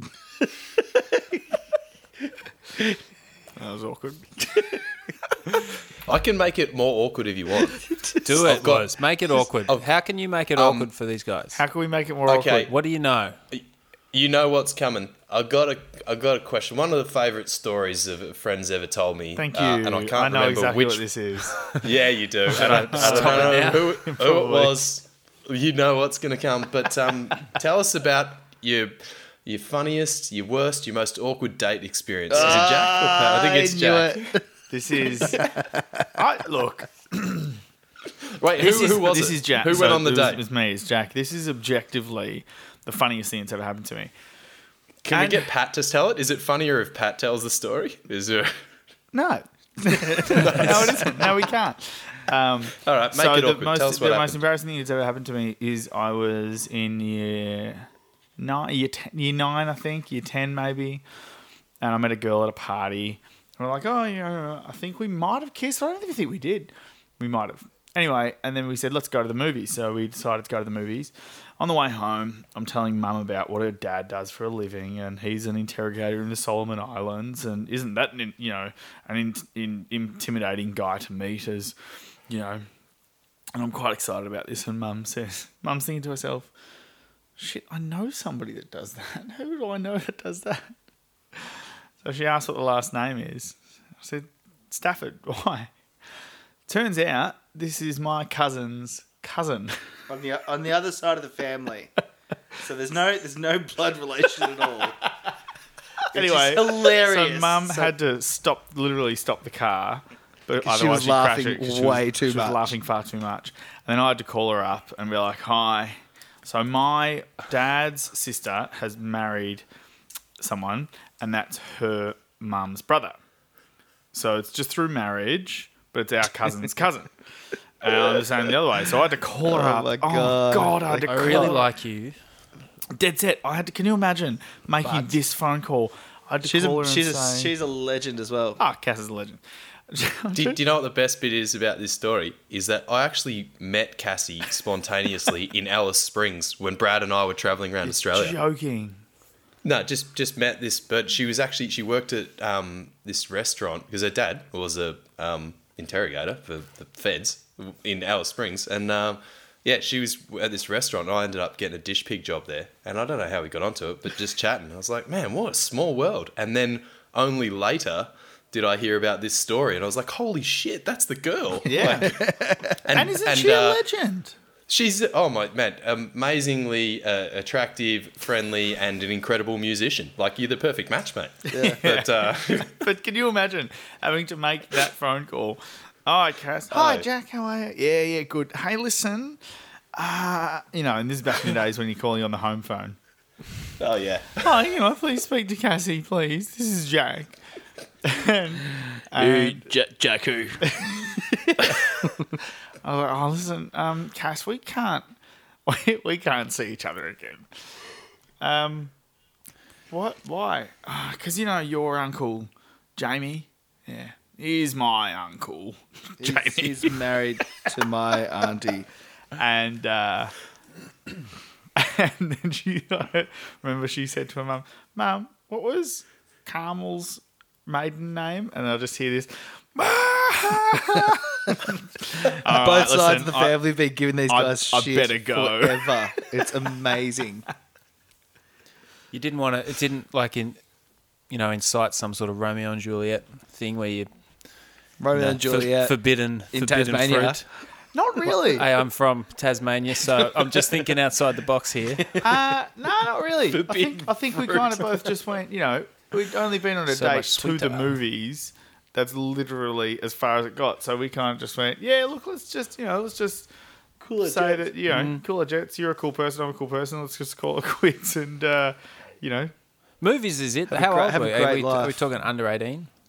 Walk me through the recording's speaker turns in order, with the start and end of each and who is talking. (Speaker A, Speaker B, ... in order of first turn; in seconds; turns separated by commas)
Speaker A: 0.5-1.4, Speaker B: 3.6-4.8, Speaker C: 6.0-7.8, Speaker D: 8.2-11.6, Speaker C: 8.4-9.9, Speaker C: 10.6-10.9, Speaker B: 11.6-12.7, Speaker C: 12.3-12.7, Speaker D: 12.7-13.4, Speaker C: 13.5-21.0, Speaker B: 19.4-21.8, Speaker C: 21.7-34.3, Speaker B: 22.5-24.8, Speaker D: 22.5-23.9, Speaker A: 32.3-36.1, Speaker B: 32.4-32.7, Speaker B: 34.7-35.5, Speaker B: 36.1-37.6, Speaker C: 38.3-40.4, Speaker B: 38.6-44.1, Speaker C: 45.0-48.6, Speaker B: 45.1-45.5, Speaker B: 49.1-57.9, Speaker C: 50.2-51.3, Speaker C: 52.8-54.4, Speaker B: 58.4-61.0, Speaker B: 61.8-81.8, Speaker B: 82.3-82.6, Speaker B: 83.5-86.5, Speaker B: 87.4-90.7, Speaker B: 91.4-95.7, Speaker B: 96.7-99.8, Speaker A: 100.1-101.9, Speaker A: 102.6-105.0, Speaker A: 106.1-107.9, Speaker B: 106.1-119.7, Speaker A: 110.6-112.7, Speaker B: 120.4-123.2, Speaker B: 124.1-127.1, Speaker B: 127.8-131.7, Speaker A: 129.5-131.6, Speaker D: 131.0-132.2, Speaker B: 132.9-137.5, Speaker D: 134.8-135.1, Speaker A: 136.4-138.6, Speaker B: 138.6-140.6, Speaker C: 140.3-148.4, Speaker B: 147.8-149.0, Speaker C: 149.6-172.2, Speaker B: 171.7-172.2, Speaker A: 171.8-172.8, Speaker C: 172.8-173.8, Speaker B: 172.9-174.3, Speaker C: 174.7-182.9, Speaker A: 181.5-181.8, Speaker B: 181.5-189.4, Speaker C: 186.7-187.1, Speaker B: 189.9-193.0, Speaker C: 193.8-194.6, Speaker B: 194.4-197.3, Speaker B: 198.0-199.7, Speaker A: 199.2-200.7, Speaker B: 200.6-201.7, Speaker A: 201.5-202.2, Speaker B: 202.8-205.1, Speaker B: 205.7-207.5, Speaker B: 208.4-208.9, Speaker B: 209.9-217.1, Speaker A: 216.2-218.9, Speaker B: 219.3-220.3, Speaker B: 221.8-233.6, Speaker A: 232.3-237.5, Speaker B: 234.3-236.5, Speaker D: 239.1-240.6, Speaker D: 241.3-244.1, Speaker A: 245.0-246.0, Speaker D: 245.1-247.4, Speaker A: 246.5-247.4, Speaker B: 247.9-248.6, Speaker A: 248.3-248.6, Speaker D: 248.4-252.1, Speaker A: 252.1-252.4, Speaker B: 252.2-263.5, Speaker A: 253.5-255.0, Speaker D: 256.9-257.9, Speaker A: 264.0-264.7, Speaker B: 264.2-269.5, Speaker D: 264.9-265.2, Speaker D: 270.0-272.9, Speaker A: 270.7-272.0